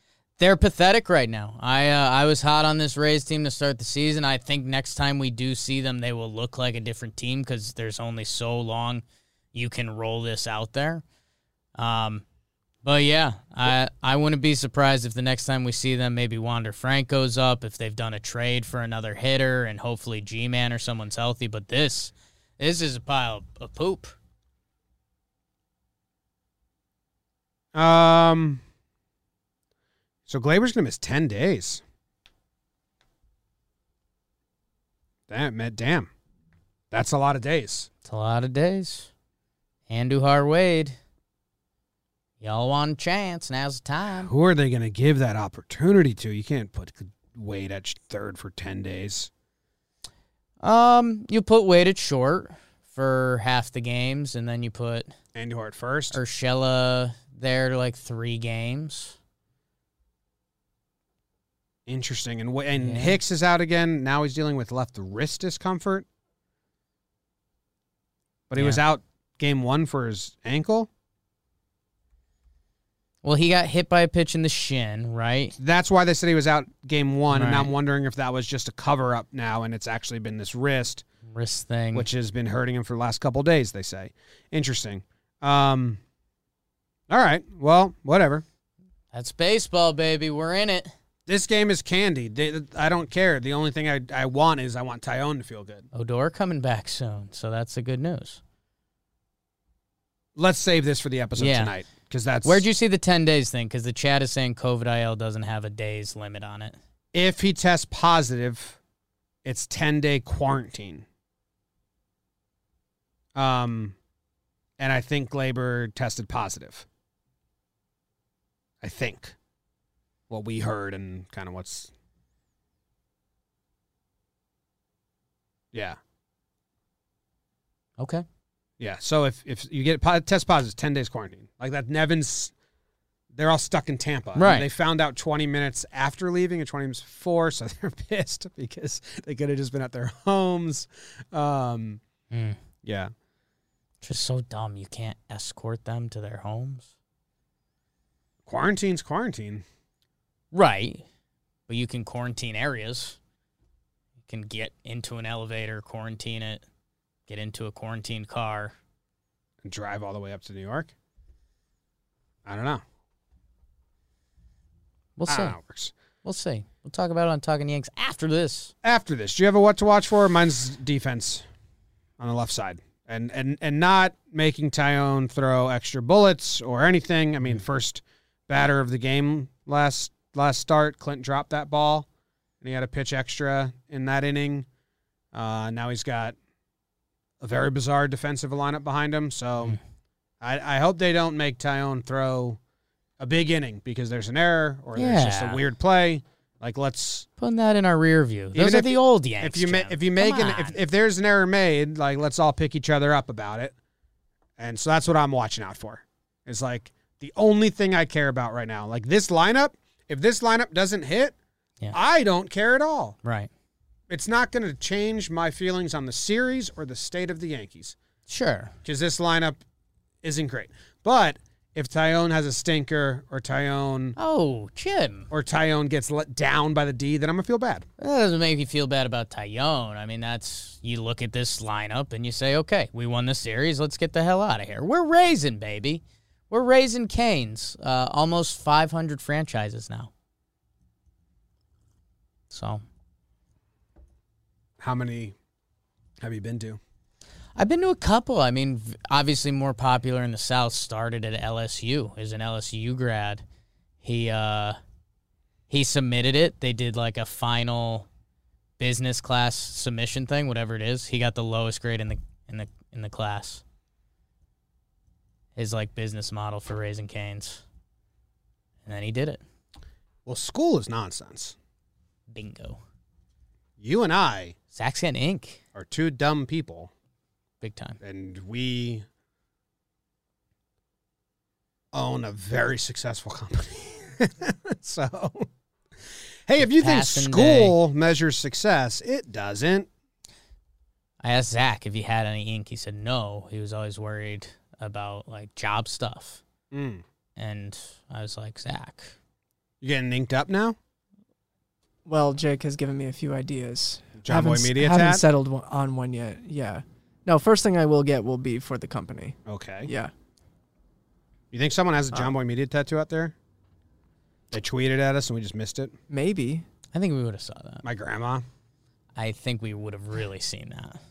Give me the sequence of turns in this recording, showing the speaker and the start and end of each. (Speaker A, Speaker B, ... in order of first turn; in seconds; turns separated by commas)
Speaker A: 0.4-11.0, Speaker A: 11.8-12.2, Speaker A: 12.8-24.1, Speaker B: 27.7-28.6, Speaker B: 30.3-31.8, Speaker B: 35.3-36.1, Speaker B: 36.9-37.9, Speaker A: 38.0-39.1, Speaker A: 39.9-41.0, Speaker A: 42.4-44.3, Speaker B: 44.1-49.3, Speaker A: 50.6-55.1, Speaker B: 55.3-56.2, Speaker A: 56.1-59.1, Speaker B: 61.9-66.0, Speaker A: 62.8-63.2, Speaker B: 68.5-70.9, Speaker A: 68.5-68.8, Speaker A: 73.2-75.5, Speaker B: 75.6-81.0, Speaker A: 77.3-77.7, Speaker A: 81.2-82.1, Speaker B: 81.9-86.0, Speaker B: 87.1-88.4, Speaker A: 89.1-90.9, Speaker B: 91.3-95.9, Speaker A: 95.9-98.4, Speaker B: 100.3-102.7, Speaker A: 101.4-101.7, Speaker A: 102.4-106.8, Speaker B: 107.1-108.8, Speaker B: 109.4-111.0, Speaker B: 113.3-114.0, Speaker B: 114.8-116.8, Speaker B: 118.8-119.3, Speaker B: 120.3-121.9, Speaker B: 125.7-126.0, Speaker A: 128.0-128.2, Speaker B: 128.8-132.5, Speaker B: 133.3-142.0, Speaker A: 134.3-134.7, Speaker A: 142.3-142.6, Speaker B: 142.8-143.1, Speaker A: 144.0-146.9, Speaker B: 148.4-149.6, Speaker A: 150.5-151.0, Speaker A: 151.7-153.2, Speaker A: 154.3-156.6, Speaker A: 157.3-158.7, Speaker B: 159.6-160.9, Speaker B: 162.4-162.8, Speaker A: 165.2-165.6, Speaker B: 165.3-165.9, Speaker A: 166.2-168.7, Speaker B: 168.8-171.4, Speaker B: 172.2-182.1, Speaker B: 182.6-184.7, Speaker B: 185.3-186.3, Speaker B: 187.4-189.8, Speaker B: 190.4-192.6, Speaker B: 193.2-197.3, Speaker A: 194.9-195.6, Speaker A: 197.4-200.8, Speaker B: 198.5-203.7, Speaker B: 204.6-211.3, Speaker B: 211.9-213.2, Speaker A: 213.2-213.5, Speaker B: 214.1-217.9, Speaker A: 218.3-218.7, Speaker B: 218.8-219.6, Speaker B: 220.2-224.2, Speaker A: 224.2-225.3, Speaker B: 225.3-227.8, Speaker A: 228.0-240.1, Speaker A: 242.5-242.8, Speaker B: 244.8-245.3, Speaker B: 246.2-246.8, Speaker A: 247.6-253.4, Speaker A: 254.0-254.8, Speaker A: 255.7-258.1, Speaker A: 258.8-263.6, Speaker A: 265.5-267.6, Speaker A: 268.9-269.4, Speaker B: 270.2-271.6, Speaker A: 272.3-272.8, Speaker B: 273.8-274.5, Speaker A: 274.7-275.6, Speaker B: 275.7-276.9, Speaker A: 277.6-278.0, Speaker B: 278.0-279.0, Speaker B: 281.9-285.5, Speaker B: 286.5-289.9, Speaker A: 286.6-287.8, Speaker A: 291.2-296.4, Speaker B: 296.7-297.0, Speaker A: 297.4-299.1, Speaker B: 299.8-300.8, Speaker C: 302.1-310.1, Speaker B: 304.2-305.2, Speaker B: 309.5-309.9, Speaker B: 311.5-313.3, Speaker B: 314.5-315.9, Speaker C: 316.1-316.6, Speaker A: 316.9-317.8, Speaker B: 317.8-318.4, Speaker A: 319.1-321.0